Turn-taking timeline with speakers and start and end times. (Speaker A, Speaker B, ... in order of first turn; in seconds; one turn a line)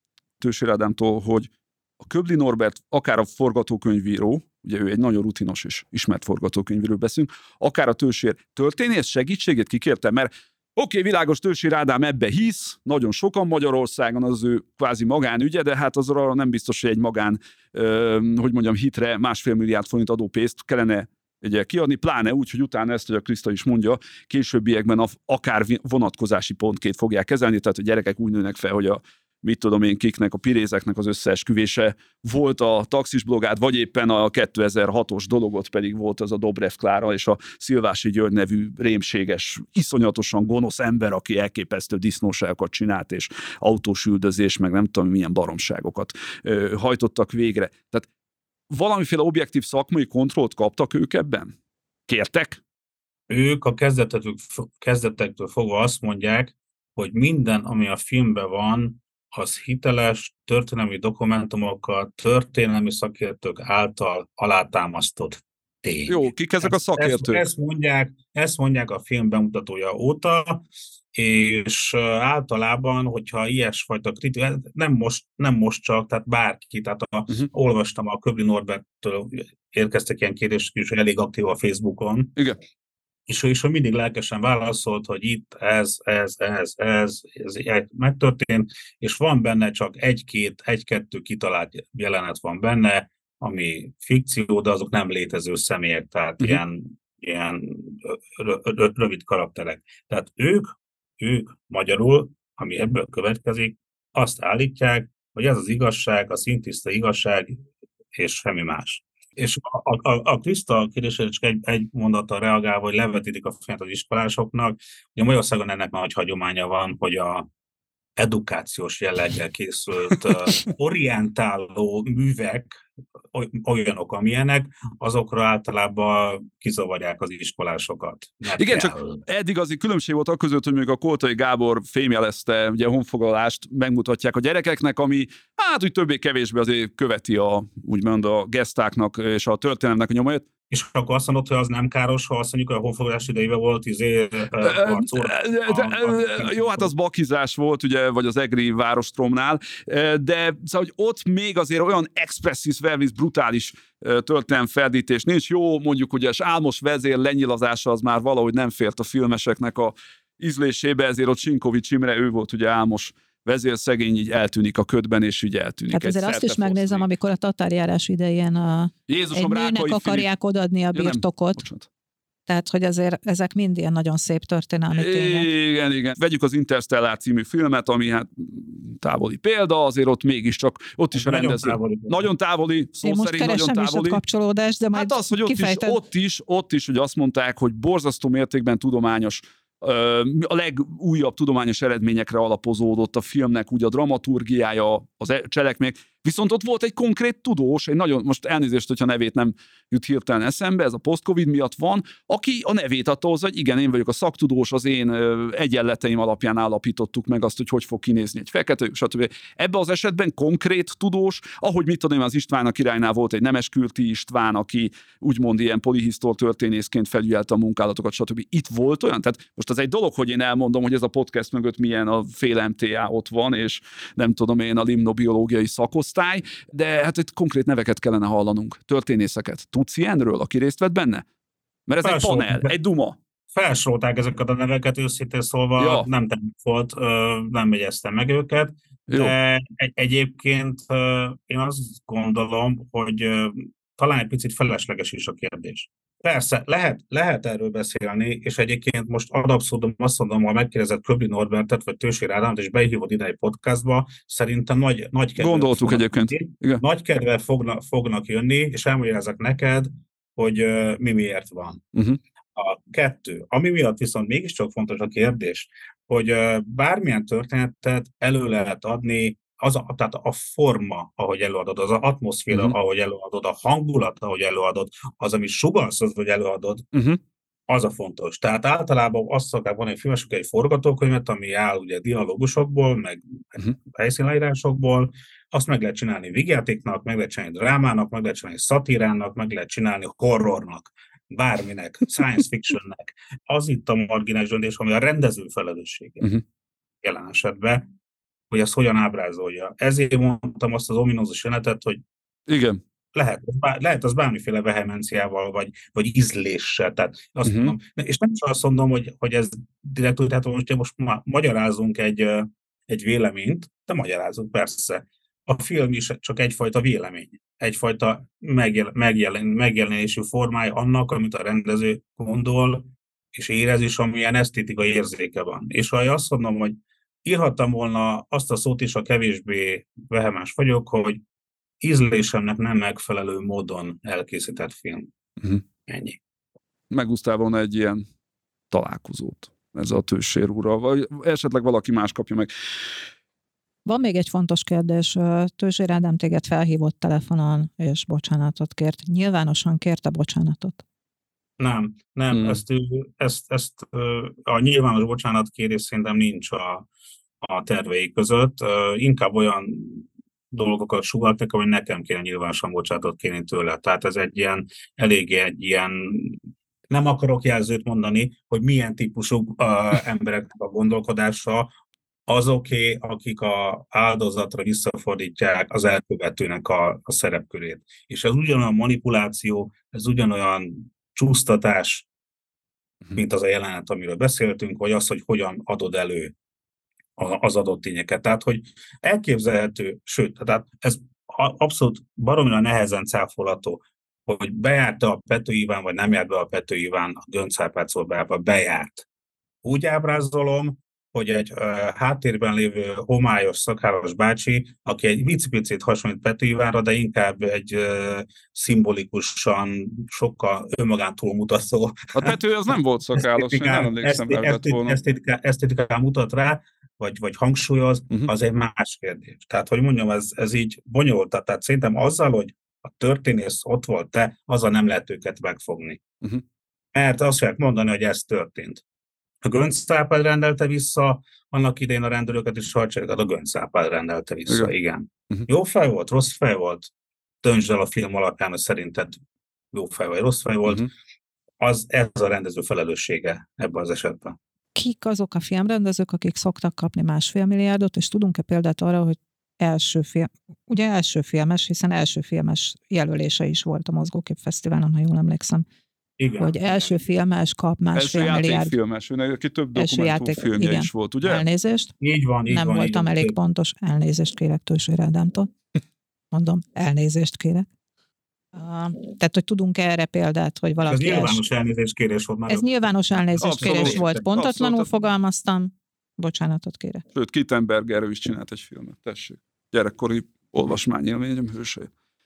Speaker A: 0.4-48.1
Speaker A: 48.7-51.5
Speaker A: 52.1-52.6
Speaker B: 53.3-82.3
Speaker A: 66.1-67.5
Speaker B: 83.3-107.6
Speaker B: 108.2-117.5
Speaker B: 118.2-129.2
Speaker A: 128.6-140.4
Speaker B: 140.7-146.9
Speaker A: 144.6-167.1
Speaker C: 165.9-171.6
Speaker A: 169.1-170.3
Speaker A: 170.9-171.9
Speaker C: 172.5-175.5
Speaker A: 174.9-184.2
Speaker B: 181.1-182.3
Speaker C: 183.0-186.0
Speaker A: 184.9-231.2
Speaker A: 231.9-233.2
Speaker B: 232.0-232.7
Speaker B: 233.6-261.8
Speaker A: 235.8-236.1
Speaker A: 239.1-239.3
Speaker A: 255.4-256.8
Speaker A: 261.9-262.2
Speaker B: 262.6-276.9
Speaker A: 272.5-272.8
Speaker A: 276.9-277.2
Speaker B: 277.7-296.3
Speaker B: 297.0-297.9
Speaker B: 298.5-302.0
Speaker A: 302.5-302.8
Speaker B: 303.1-331.2
Speaker A: 307.4-307.8
Speaker B: 331.8-335.1
Speaker B: 335.9-336.2
Speaker A: 336.9-338.0
Speaker A: 338.7-342.5
Speaker C: 343.9-350.8
Speaker B: 351.6-356.9
Speaker A: 352.3-352.6
Speaker B: 357.4-366.4
Speaker B: 366.9-371.7
Speaker B: 372.3-382.1
Speaker B: 383.1-386.3
Speaker B: 387.2-399.1
Speaker B: 399.6-412.4
Speaker A: 412.1-415.0
Speaker B: 413.2-426.0
Speaker B: 426.9-428.8
Speaker B: 429.4-436.9
Speaker B: 437.4-439.2
Speaker B: 439.7-440.9
Speaker B: 441.6-444.4
Speaker C: 444.8-455.6
Speaker B: 456.2-457.0
Speaker C: 456.4-458.7
Speaker A: 457.9-461.4
Speaker C: 459.8-461.9
Speaker B: 462.0-463.4
Speaker C: 462.5-465.5
Speaker C: 466.3-467.7
Speaker C: 468.6-471.4
Speaker B: 470.9-474.2
Speaker C: 472.5-477.0
Speaker A: 473.4-474.9
Speaker A: 477.1-481.9